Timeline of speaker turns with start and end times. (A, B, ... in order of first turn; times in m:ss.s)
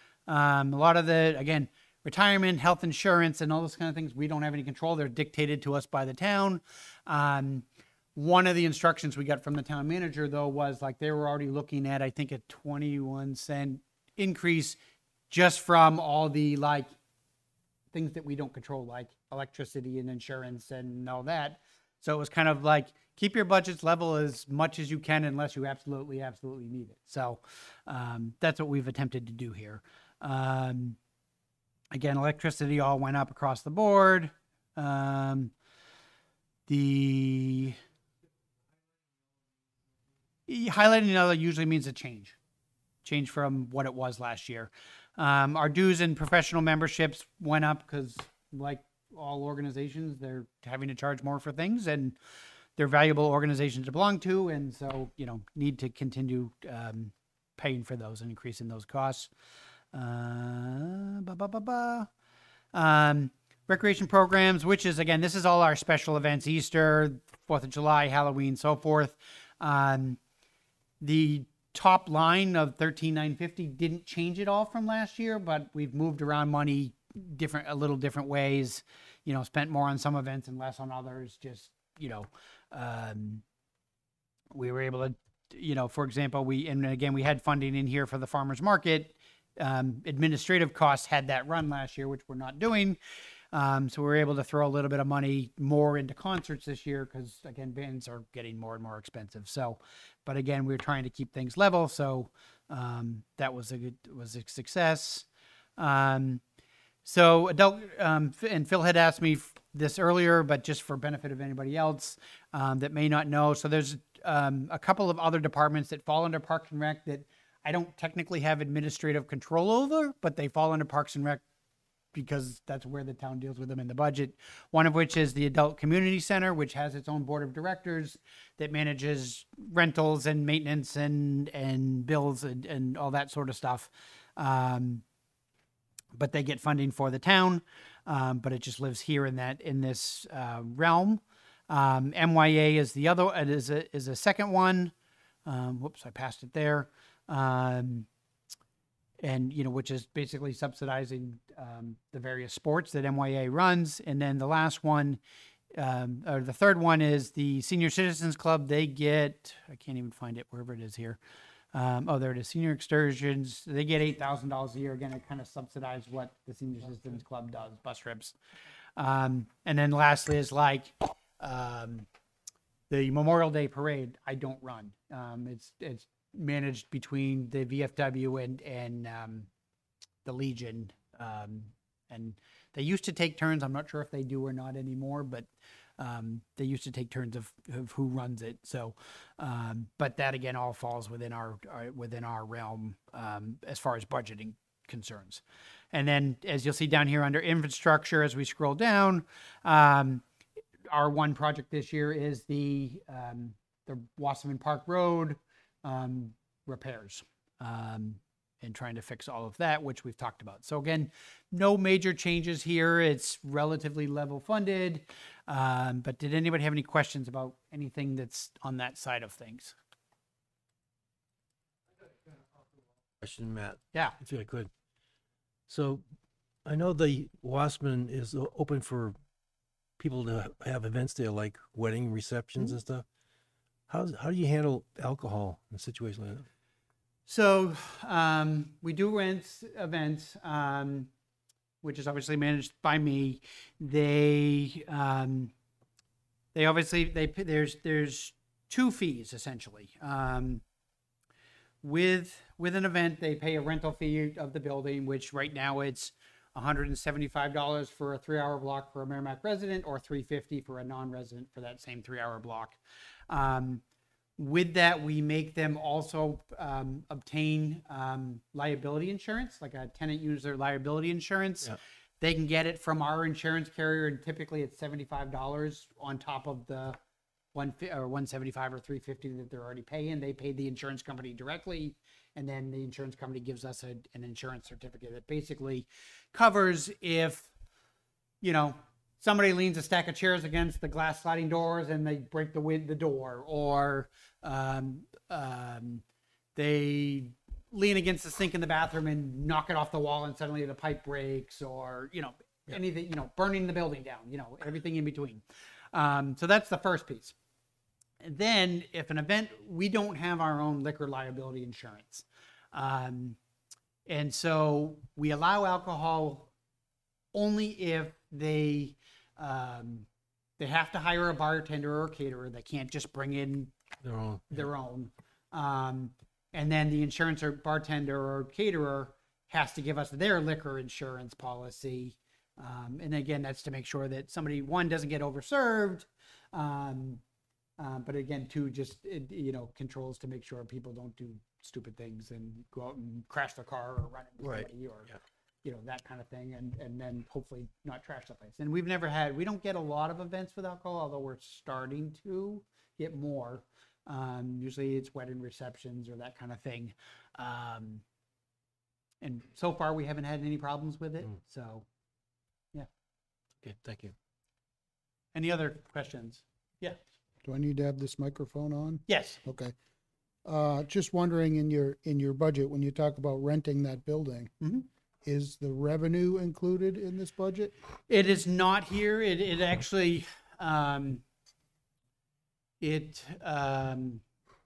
0:00.3-0:07.6 A
0:08.2-0:14.8 A
0:15.3-0:16.9 A
0:17.9-0:31.0 A
0:31.9-0:35.5 A
0:36.7-0:37.8 A
0:40.5-0:42.4 A
0:43.0-0:52.2 A
0:52.8-0:59.3 A
0:59.9-1:02.1 A
1:02.7-1:10.2 A
1:11.0-1:23.4 A
1:24.5-1:33.0 A
1:33.5-1:45.2 A
1:45.8-1:46.4 A
1:47.0-2:01.4 A
2:02.1-2:15.0 A
2:16.1-2:24.9 A
2:25.4-2:28.1 A
2:29.2-2:35.2 A
2:35.7-2:41.2 A
2:41.7-2:48.4 A
2:49.0-2:52.1 A
2:52.9-2:59.5 A
3:00.2-3:05.5 A
3:06.0-3:15.4 A
3:15.9-3:20.2 A
3:20.9-3:39.7 A
3:43.2-3:44.7 B
3:45.7-3:46.0 B
3:46.6-3:49.2 B
3:50.0-3:53.0 B
3:53.9-3:56.5 B
3:57.3-4:01.1 A
4:01.8-4:05.5 A
4:06.5-4:10.6 A
4:11.8-4:22.8 A
4:23.3-4:23.8 A
4:24.4-4:37.0 A
4:37.5-4:47.5 A
4:48.4-4:56.0 A
4:56.6-5:05.4 A
5:05.9-5:07.3 A
5:08.2-5:13.4 A
5:14.0-5:16.5 A
5:17.3-5:20.1 A
5:20.6-5:23.7 A
5:24.0-5:24.6 B
5:24.5-5:37.2 A
5:37.8-5:45.1 A
5:44.4-5:44.7 B
5:45.6-5:58.0 A
5:59.2-6:01.8 A
6:03.6-6:04.1 B
6:05.3-6:07.0 A
6:07.4-6:09.7 C
6:09.1-6:09.4 A
6:10.4-6:14.5 C
6:14.6-6:14.9 A
6:15.2-6:17.7 C
6:18.1-6:21.2 A
6:22.8-6:24.2 A